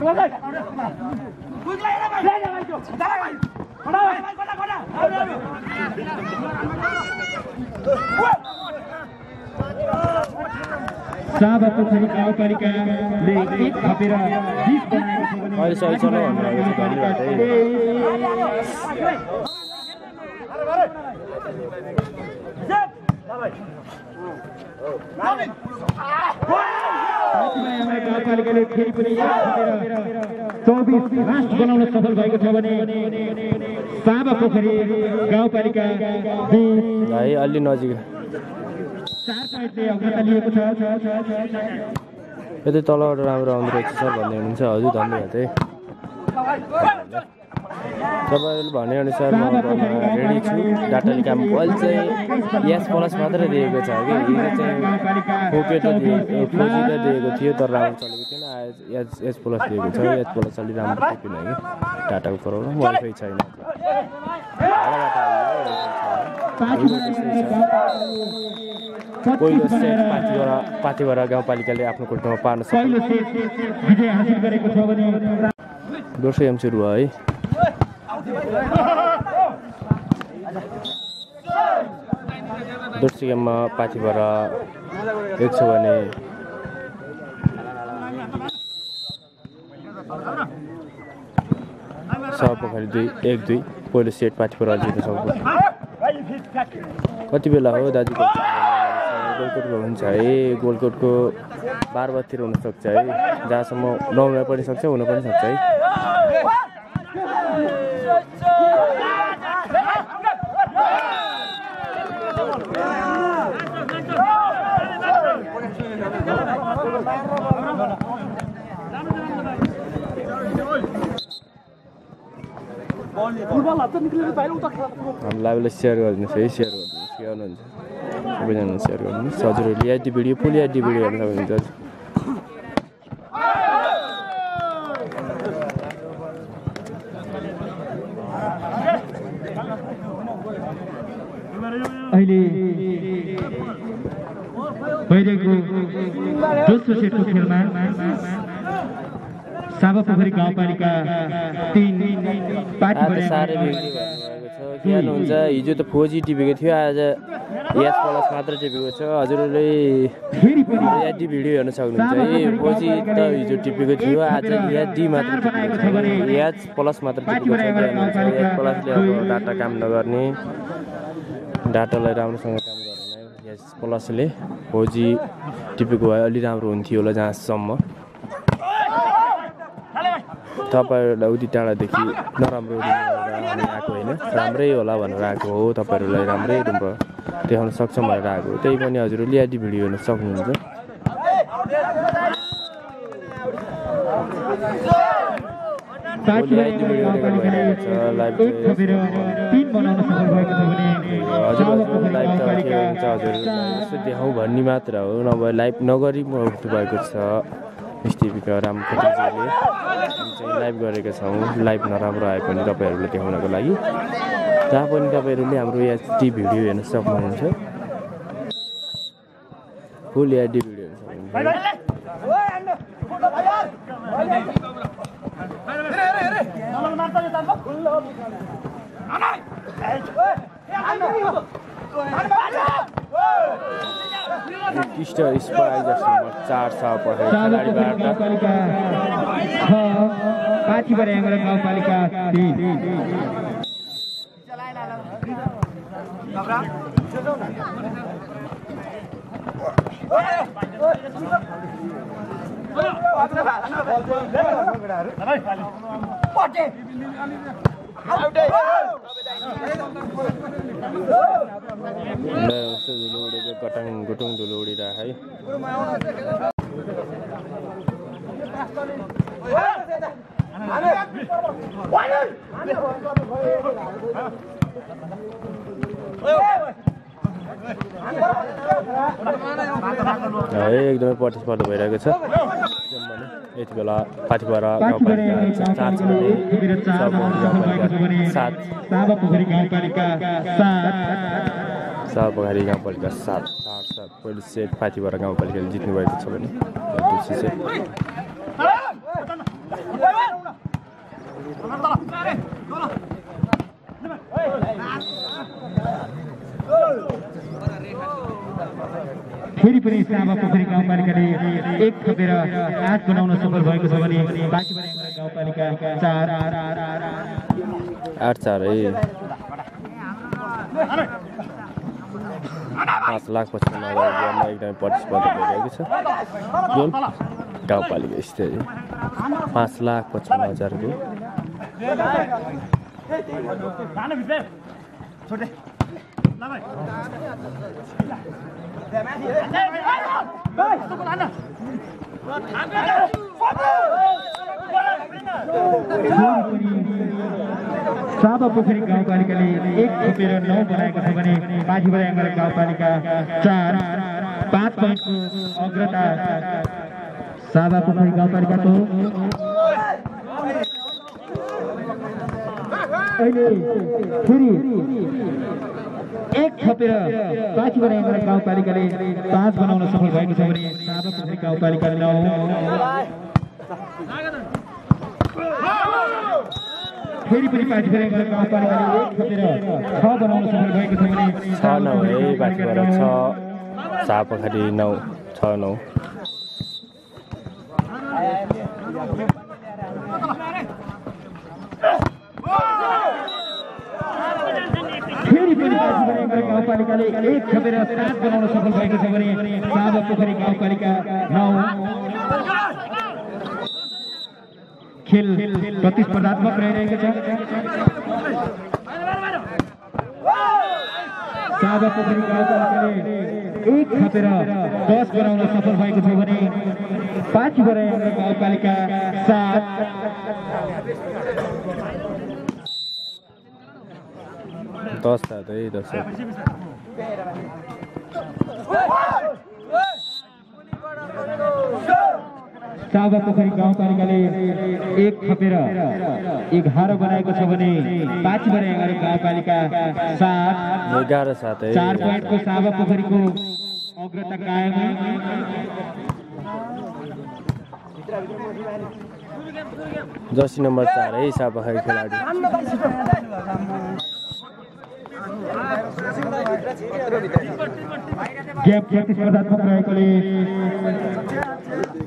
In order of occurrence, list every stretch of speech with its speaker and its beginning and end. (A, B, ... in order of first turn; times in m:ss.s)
0:11.3-0:18.3 A
0:15.6-0:17.6 B
0:27.3-0:37.1 A
0:37.0-0:38.0 B
0:39.2-0:41.6 A
0:42.6-0:45.5 B
0:46.7-0:47.2 B
0:48.2-0:54.9 B
0:49.3-0:57.0 A
0:55.5-1:03.8 B
1:04.6-1:07.6 B
1:06.6-1:08.2 A
1:09.2-1:10.5 A
1:09.4-1:13.1 B
1:12.7-1:15.4 A
1:16.2-1:17.1 B
1:22.9-1:24.6 B
1:25.4-1:26.1 B
1:32.3-1:35.4 B
1:37.3-1:41.4 B
1:41.9-1:45.6 B
2:05.2-2:07.7 B
2:08.4-2:11.7 B
2:22.1-2:23.0 A
2:25.1-2:25.9 A
2:26.5-2:28.2 A
2:29.7-2:33.8 A
2:32.9-2:40.2 B
2:34.8-2:35.4 A
2:40.3-2:41.0 A
2:40.8-2:50.4 B
2:41.9-2:46.3 A
2:47.3-2:49.4 A
2:51.6-2:55.2 B
2:55.8-2:57.8 B
3:00.6-3:10.6 B
3:16.2-3:23.1 A
3:16.3-3:19.4 B
3:21.1-3:27.4 B
3:28.0-3:29.6 B
3:30.2-3:33.8 B
3:34.7-3:37.6 B
3:40.1-3:41.6 B
3:54.7-3:58.2 B
3:57.3-4:03.0 A
4:22.3-4:25.2 B
4:40.5-4:42.2 B
4:42.8-4:48.6 B
4:44.8-4:51.5 A
4:52.1-4:57.6 B
5:09.6-5:16.9 A
5:18.2-5:19.0 B
5:23.0-5:25.9 B
5:26.7-5:27.0 B
5:27.6-5:28.7 B
5:29.5-5:31.0 B
5:46.0-5:47.1 A
5:48.1-5:56.6 A
5:57.4-5:59.1 A
6:03.2-6:05.1 A
6:06.3-6:12.8 A
6:17.2-6:23.1 A
6:21.5-6:23.4 B
6:24.0-6:25.8 B
6:35.1-6:42.0 A
6:36.1-6:36.7 B
6:45.0-6:47.6 A
6:51.5-7:00.0 A
7:04.9-7:06.1 B
7:12.9-7:21.0 A
7:20.8-7:22.4 B
7:21.7-7:25.2 A
7:30.3-7:32.3 B
7:38.6-7:40.5 A